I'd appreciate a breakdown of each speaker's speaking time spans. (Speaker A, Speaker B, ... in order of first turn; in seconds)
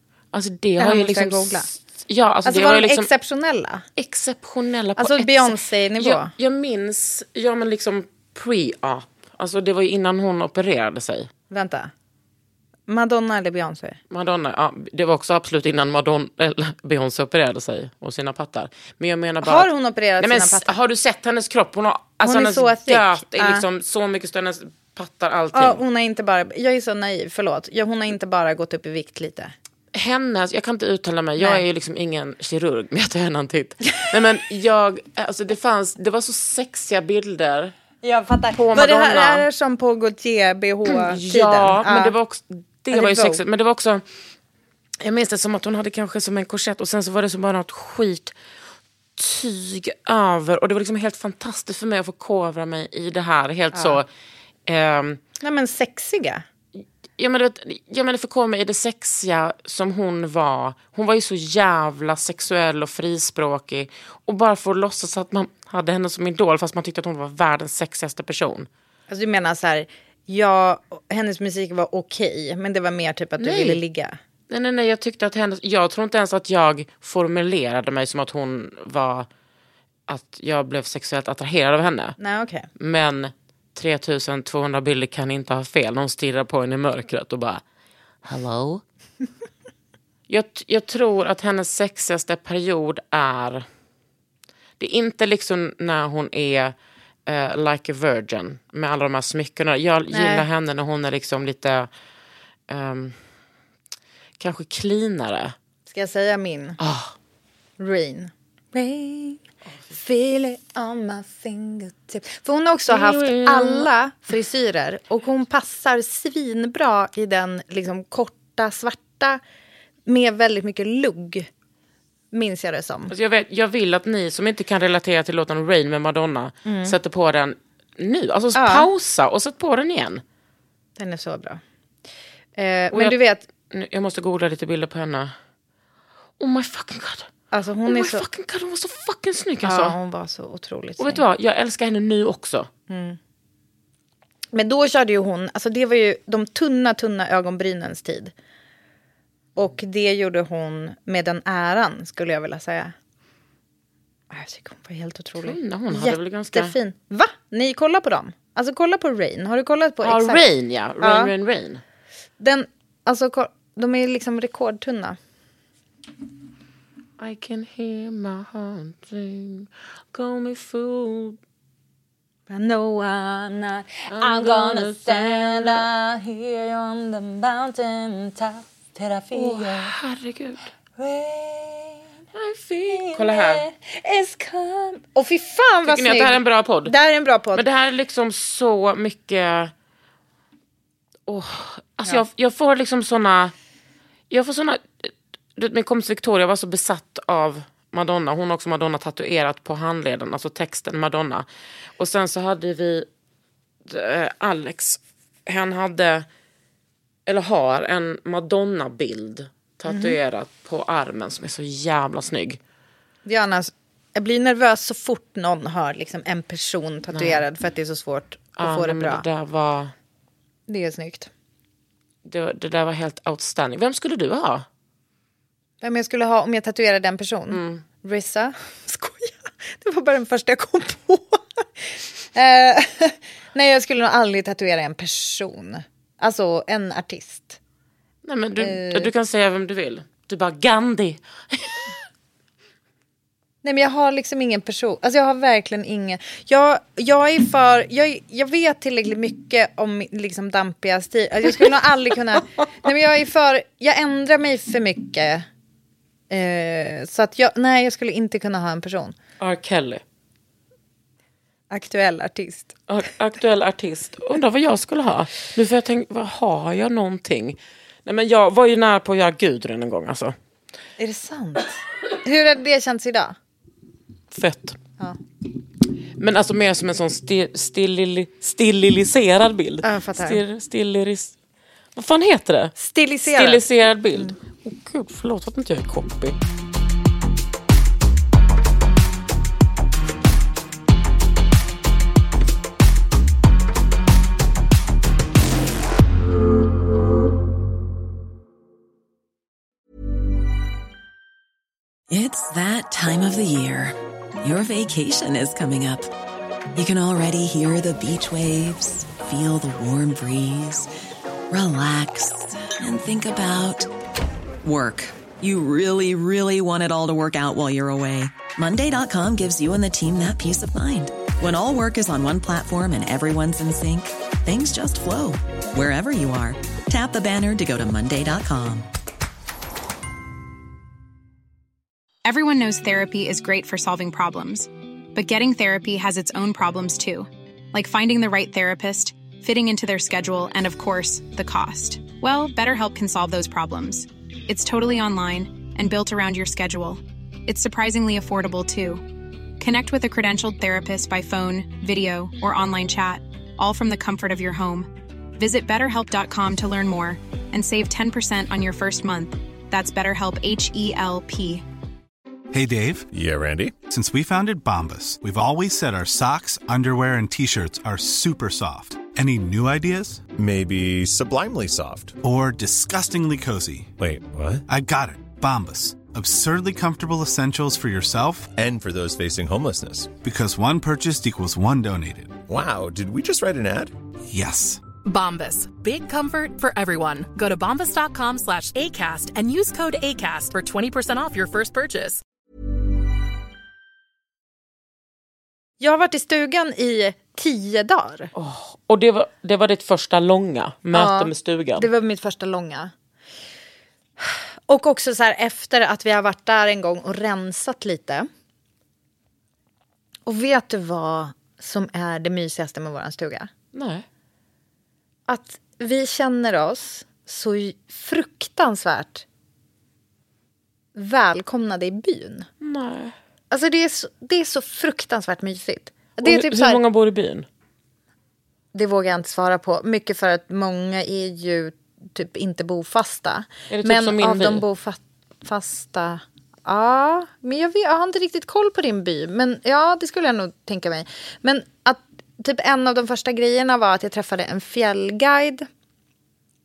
Speaker A: 0.3-3.1, 4.0-11.3, 14.1-25.8, 29.9-37.7, 38.5-39.5, 40.9-44.0, 45.0-48.4, 49.2-54.1, 54.7-55.2, 57.2-68.7, 73.4-73.8, 74.5-79.3, 80.1-82.2, 82.8-87.6, 88.2-88.8, 90.3-93.7, 94.8-96.7, 97.3-101.9, 102.7-103.2, 104.4-105.5, 106.8-107.1, 112.9-113.9, 123.1-130.2, 132.9-133.2, 133.7-135.3, 136.4-137.3, 137.9-140.0, 141.0-142.7, 155.4-156.8, 160.0-161.8, 167.2-171.4, 174.1-175.8, 179.3-180.7, 182.3-183.6, 185.8-186.9, 187.5-189.7, 191.3-193.5, 194.3-201.5, 202.0-203.1, 203.9-206.3, 207.3-212.6, 217.1-217.4, 218.6-219.9, 222.2-224.7, 227.5-227.8, 238.2-241.9, 259.4-260.0, 262.9-270.3, 274.3-274.8, 276.2-281.3, 282.0-286.4, 398.4-401.9, 413.7-414.1, 422.6-423.1, 426.2-427.5, 433.7-434.6
Speaker B: 0.8-1.7, 2.5-3.8, 5.0-6.3, 11.5-11.9, 12.9-14.0, 19.4-20.7, 22.2-23.6, 25.5-29.5, 31.4-31.6, 38.0-42.1, 42.9-43.4, 53.7-54.0, 55.4-56.5, 69.1-74.2, 82.2-82.7, 100.1-100.5, 105.9-106.8, 107.8-109.4, 109.9-119.4, 120.1-121.5, 122.3-123.1, 126.7-127.0, 128.6-128.9, 131.0-131.6, 132.6-133.4, 137.5-138.2, 139.6-141.2, 142.9-143.2, 144.5-148.3, 149.6-152.9, 154.3-160.4, 161.0-161.3, 162.4-165.2, 172.5-179.9, 181.0-182.1, 182.9-187.6, 209.9-210.2, 213.3-219.2, 220.7-221.3, 225.8-231.4, 232.3-237.6, 238.6-239.1, 243.6-255.5, 256.3-259.1, 261.7-262.7, 271.0-273.4, 279.8-280.4, 282.8-283.6, 395.8-398.3, 400.9-402.9, 404.2-408.3, 410.3-413.5, 415.3-419.2, 420.9-422.5, 423.5-426.8, 428.7-445.7
Speaker C: 302.1-306.1, 306.7-310.9, 311.5-313.9, 314.6-328.9
Speaker D: 332.2-349.1, 349.6-361.6
Speaker E: 362.5-363.1, 363.8-370.3, 372.2-373.9, 374.7-378.5, 380.2-382.4, 384.3-384.8
Speaker F: 363.1-363.8, 370.4-372.2, 374.0-374.6, 378.6-380.1, 382.5-383.9
Speaker G: 385.1-392.2